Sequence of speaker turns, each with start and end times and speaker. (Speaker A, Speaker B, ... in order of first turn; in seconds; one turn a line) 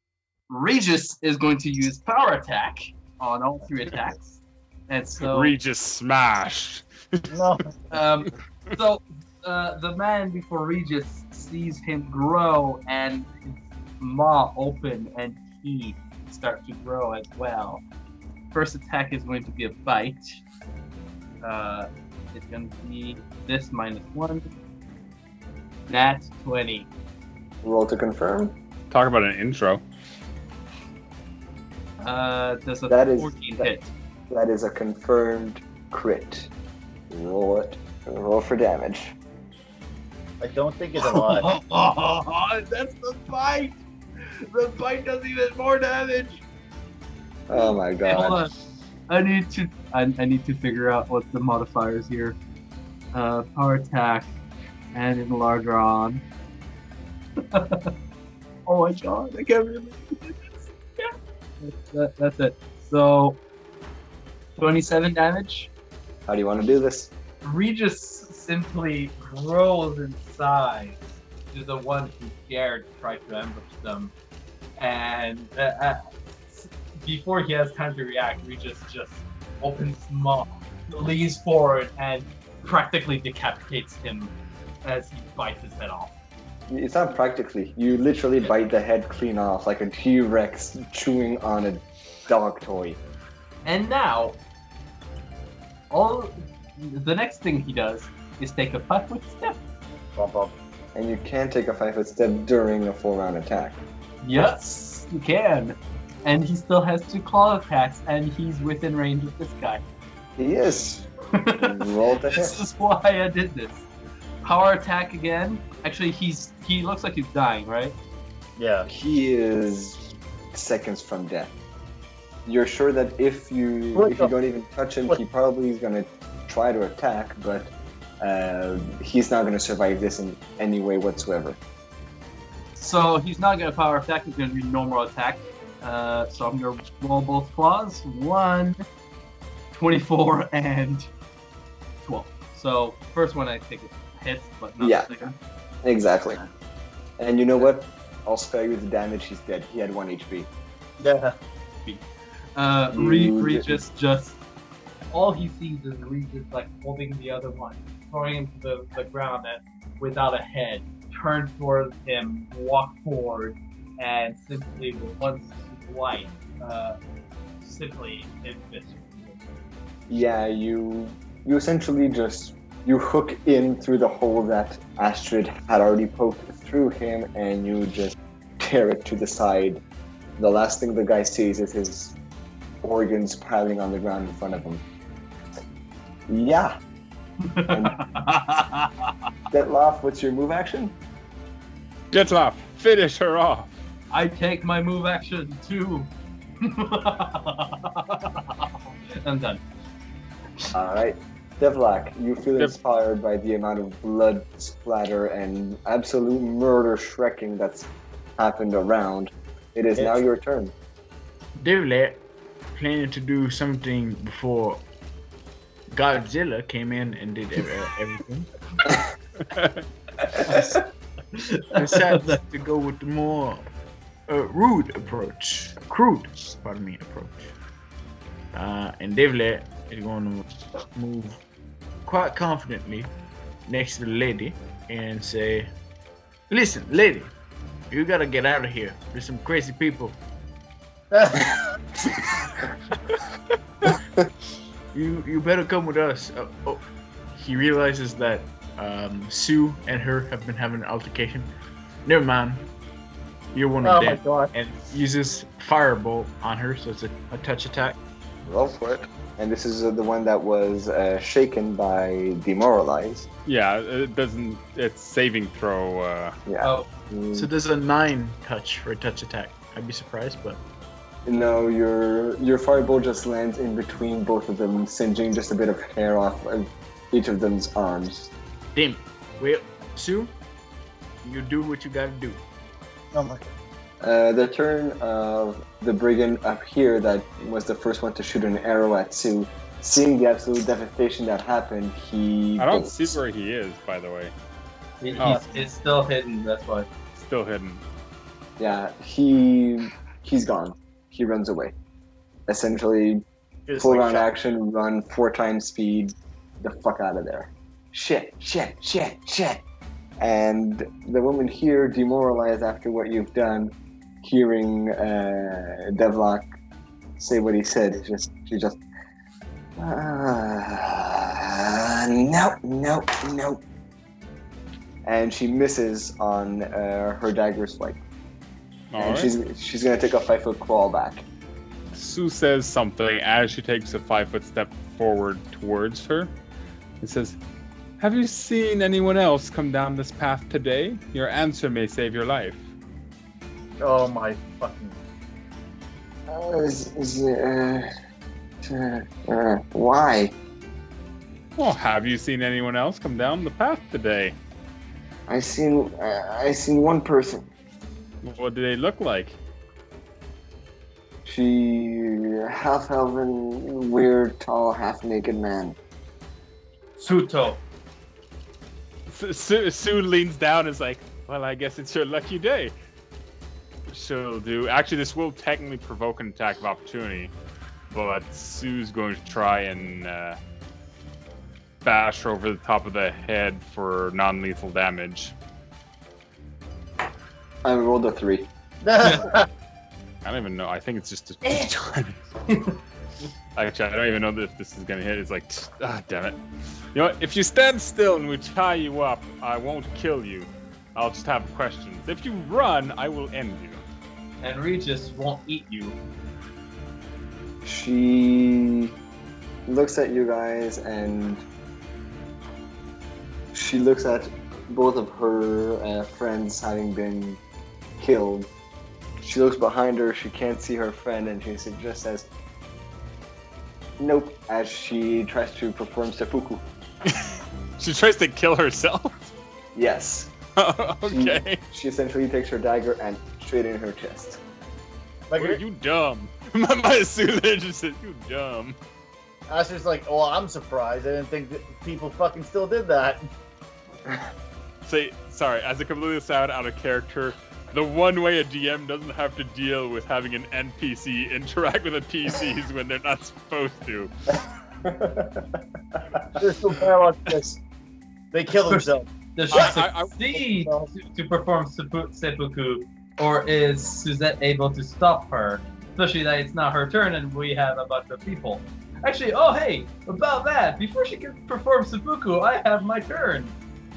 Speaker A: 0.5-5.5
Speaker B: 5.2-7.3
Speaker C: 7.3-7.8
Speaker A: 7.9-17.8
Speaker A: 18.5-20.4
Speaker A: 21.4-24.6
Speaker A: 25.9-26.9
Speaker D: 27.6-28.6
Speaker B: 28.9-29.8
Speaker A: 32.0-33.9
Speaker D: 32.9-33.7
Speaker D: 34.3-36.5
Speaker D: 37.1-39.1
Speaker C: 40.4-41.5
Speaker A: 41.0-46.4
Speaker D: 47.5-48.5
Speaker A: 47.5-48.5
Speaker A: 49.1-52.4
Speaker A: 53.1-54.3
Speaker A: 54.9-56.2
Speaker A: 57.5-57.9
Speaker A: 58.7-63.4
Speaker A: 64.6-65.7
Speaker D: 66.3-67.1
Speaker A: 67.4-74.1
Speaker A: 74.8-84.3
Speaker A: 84.8-86.1
Speaker D: 86.7-93.0
Speaker A: 93.7-94.4
Speaker A: 95.9-99.6
Speaker C: 100.2-100.5
Speaker D: 101.0-103.8
Speaker A: 104.2-109.8
Speaker D: 110.4-112.6
Speaker A: 111.3-111.7
Speaker A: 112.3-113.9
Speaker A: 114.4-118.0
Speaker C: 118.6-118.9
Speaker D: 118.9-121.5
Speaker D: 122.5-131.6
Speaker C: 124.0-124.3
Speaker A: 132.8-138.8
Speaker A: 139.7-141.1
Speaker A: 142.0-145.3
Speaker D: 144.8-145.1
Speaker D: 145.8-146.4
Speaker D: 147.2-150.5
Speaker C: 151.0-151.4
Speaker A: 152.6-154.4
Speaker D: 152.9-153.8
Speaker A: 155.1-167.0
Speaker A: 167.6-169.4
Speaker D: 170.1-179.8
Speaker D: 180.4-182.2
Speaker D: 182.8-184.8
Speaker D: 186.3-186.8
Speaker A: 187.4-189.1
Speaker D: 187.7-188.0
Speaker D: 189.5-191.0
Speaker B: 192.1-193.7
Speaker A: 194.1-196.1
Speaker A: 196.6-199.6
Speaker D: 200.7-210.7
Speaker E: 211.6-212.2
Speaker E: 212.7-214.8
Speaker E: 215.9-218.5
Speaker E: 220.4-220.8
Speaker A: 220.4-220.8
Speaker A: 221.4-222.4
Speaker E: 221.7-223.7
Speaker E: 224.3-227.5
Speaker E: 228.5-231.4
Speaker E: 232.1-233.1
Speaker E: 233.7-235.7
Speaker E: 236.5-237.3
Speaker E: 237.9-240.2
Speaker C: 241.1-241.6
Speaker E: 244.9-251.5
Speaker E: 252.1-252.7
Speaker E: 253.5-258.0
Speaker C: 253.8-254.5
Speaker D: 258.4-263.3
Speaker B: 263.5-266.4
Speaker D: 266.5-267.5
Speaker A: 266.6-266.9
Speaker E: 267.3-270.6
Speaker D: 271.3-278.3
Speaker E: 278.8-280.3
Speaker E: 281.2-282.4
Speaker C: 283.1-283.5
Speaker D: 284.0-293.2
Speaker B: 292.6-294.3
Speaker A: 295.0-296.9
Speaker C: 295.1-295.6
Speaker B: 295.2-295.4
Speaker B: 297.1-297.8
Speaker D: 298.6-301.7
Speaker D: 302.5-303.2
Speaker C: 303.7-304.3
Speaker D: 303.8-309.6
Speaker D: 310.2-316.5
Speaker D: 317.2-318.8
Speaker D: 319.8-323.6
Speaker D: 325.1-328.0
Speaker B: 328.9-329.3
Speaker D: 329.0-331.2
Speaker B: 331.9-336.3
Speaker B: 337.0-337.4
Speaker B: 338.0-342.7
Speaker C: 343.8-345.0
Speaker D: 346.3-347.9
Speaker D: 348.6-350.4
Speaker B: 351.6-354.4
Speaker D: 355.3-357.5
Speaker B: 358.2-359.4
Speaker D: 361.2-365.8
Speaker A: 367.0-367.6
Speaker B: 369.1-372.7
Speaker B: 373.9-377.3
Speaker B: 377.9-380.4
Speaker B: 381.8-385.3
Speaker D: 387.6-388.5
Speaker C: 388.8-389.5
Speaker A: 389.0-389.3
Speaker B: 390.2-392.3
Speaker A: 392.5-392.8
Speaker B: 393.6-396.4
Speaker B: 396.9-403.8
Speaker A: 404.4-406.0
Speaker D: 407.6-408.9
Speaker D: 409.7-411.4
Speaker D: 413.5-417.4
Speaker D: 418.0-418.5
Speaker D: 419.2-422.3
Speaker D: 424.0-426.6
Speaker B: 427.1-429.3
Speaker D: 429.8-430.3
Speaker B: 430.6-431.6
Speaker D: 431.1-434.4
Speaker C: 435.3-435.6
Speaker B: 435.4-438.8
Speaker C: 439.5-443.2
Speaker B: 444.9-454.1
Speaker D: 454.8-456.4
Speaker C: 456.4-457.6
Speaker C: 458.3-459.7
Speaker A: 458.7-473.5
Speaker B: 459.5-460.1
Speaker C: 460.3-460.9